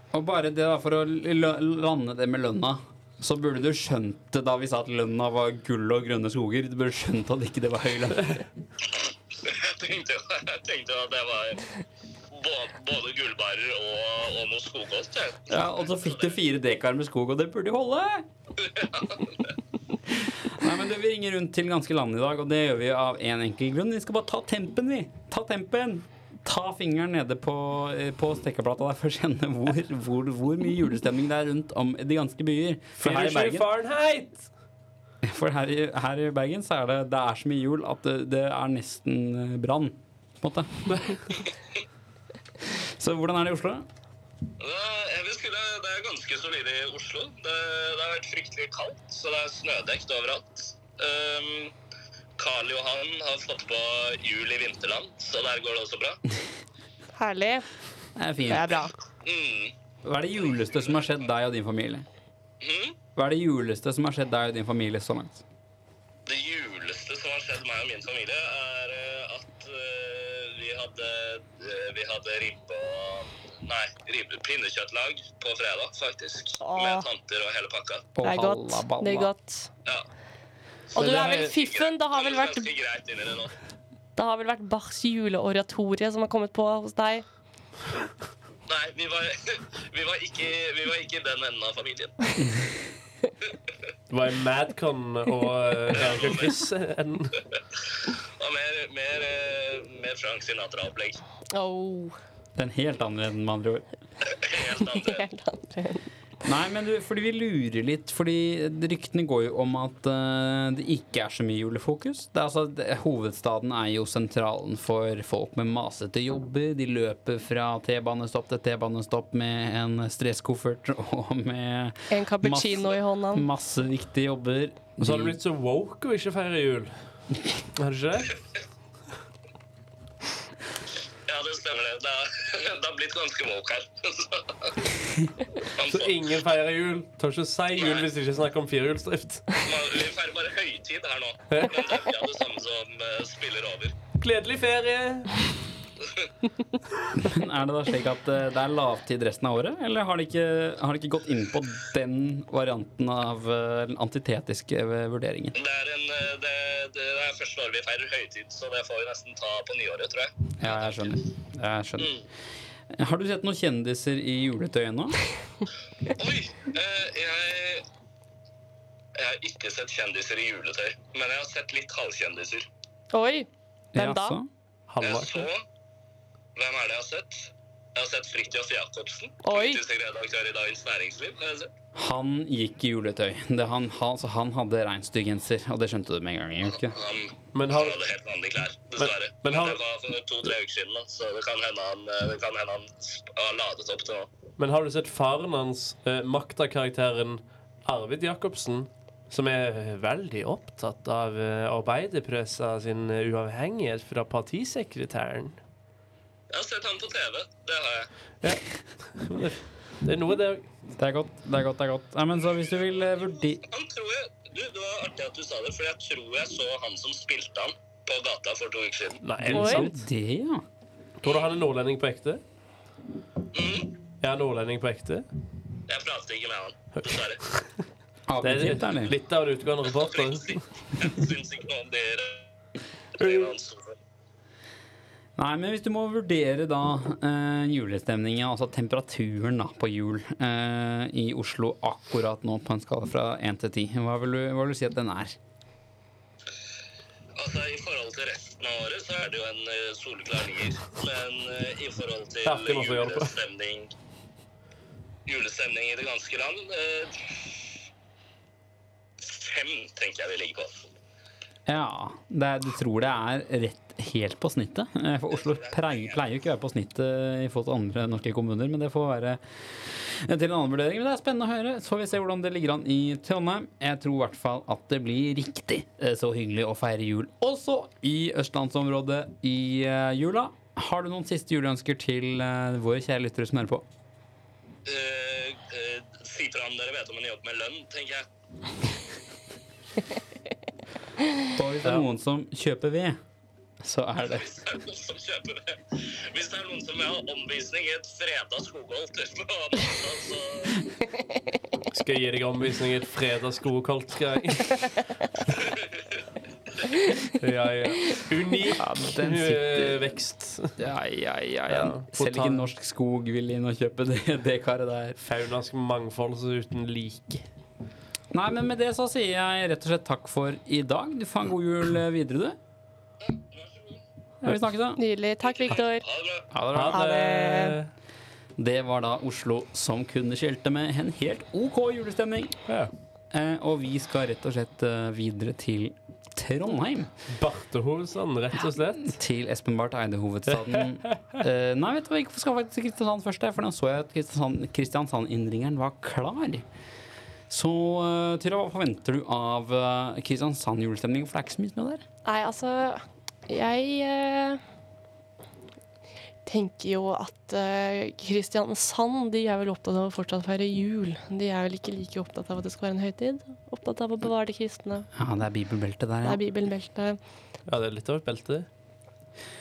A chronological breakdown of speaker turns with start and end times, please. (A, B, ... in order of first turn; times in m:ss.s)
0:00.1-0:08.4 A
0:09.0-0:11.6 B
0:12.3-0:15.6 B
0:15.5-0:18.2 A
0:18.6-0:19.5 B
0:20.1-0:33.7 A
0:33.0-0:34.5 C
0:35.2-0:40.9 A
0:40.9-0:41.2 C
0:42.6-0:43.8 A
0:44.6-0:51.7 B
0:52.4-0:56.2 B
0:57.2-0:57.7 D
0:58.2-0:58.8 A
0:58.5-0:58.9 D
0:59.2-0:59.7 B
1:00.0-1:02.0 A
1:02.6-1:03.0 B
1:03.2-1:05.4 A
1:06.2-1:18.1 B
1:16.6-1:17.1 D
1:18.2-1:19.3 A
1:18.2-1:19.7 D
1:20.9-1:22.7 D
1:20.9-1:23.6 B
1:21.0-1:21.5 C
1:24.2-1:27.2 D
1:28.7-1:32.5 B
1:34.1-1:37.4 C
1:35.9-1:36.6 B
1:38.4-1:41.2 B
1:41.5-1:42.2 D
1:42.6-1:43.8 A
1:44.2-1:45.2 B
1:44.8-1:46.0 D
1:46.4-2:05.4 A
2:02.1-2:03.4 D
2:05.0-2:06.9 C
2:07.7-2:08.4 C
2:11.2-2:14.9 B
2:15.7-2:16.3 B
2:15.8-2:19.6 C
2:17.8-2:18.1 B
2:19.6-2:24.0 B
2:21.5-2:21.8 C
2:24.2-2:25.4 C
2:26.0-2:26.3 B
2:27.1-2:35.6 A
2:35.5-2:41.1 B
2:40.6-2:42.2 A
2:42.9-2:45.2 A
2:46.1-2:47.8 B
2:49.1-2:52.7 B
2:53.1-2:54.4 D
2:53.9-2:54.5 A
2:54.9-2:55.5 C
2:55.0-2:55.6 B
2:56.6-3:01.7 B
2:59.4-2:59.8 D
3:01.9-3:06.9 A
3:06.7-3:14.3 B
3:07.5-3:08.0 C
3:09.0-3:09.8 C
3:14.6-3:25.6 C
3:26.5-3:28.1 B
3:28.4-3:30.6 C
3:31.0-3:33.6 A
3:33.6-3:39.2 B
3:39.2-3:40.0 C
3:39.4-3:40.6 A
3:39.5-3:39.9 D
3:41.2-3:42.4 C
3:43.5-3:43.9 B
3:44.2-3:45.2 C
3:45.9-3:47.4 B
3:47.0-3:47.7 C
3:48.3-3:49.1 A
3:48.4-3:50.6 C
3:50.0-3:52.5 B
3:53.2-3:54.0 B
3:53.2-3:53.5 C
3:55.4-4:05.4 A
4:07.3-4:13.9 B
4:12.4-4:13.3 C
4:15.2-4:17.8 B
4:19.2-4:20.9 B
4:21.6-4:43.8 A
4:44.8-4:48.3 B
4:51.5-4:53.2 A
4:53.8-4:54.6 A
4:54.2-5:00.9 B
5:01.9-5:04.9 C
5:05.6-5:06.2 B
5:07.3-5:10.7 C
5:08.8-5:10.1 A
5:10.8-5:15.2 A
5:11.7-5:12.7 C
5:15.2-5:17.4 C
5:18.3-5:22.6 A
5:23.2-5:24.0 B
5:24.4-5:25.0 A
5:25.0-5:26.0 D
5:25.4-5:26.5 B
5:26.5-5:27.1 A
5:26.7-5:27.9 C
5:26.8-5:27.8 D
5:28.6-5:32.6 A
5:33.3-5:37.1 A
5:37.3-5:39.2 C
5:39.0-5:46.6 A
5:40.6-5:41.4 C
5:47.5-5:52.0 A
5:52.2-5:54.6 D
5:56.4-6:05.1 D
6:05.1-6:06.4 A
6:06.2-6:07.2 D
6:07.7-6:08.7 C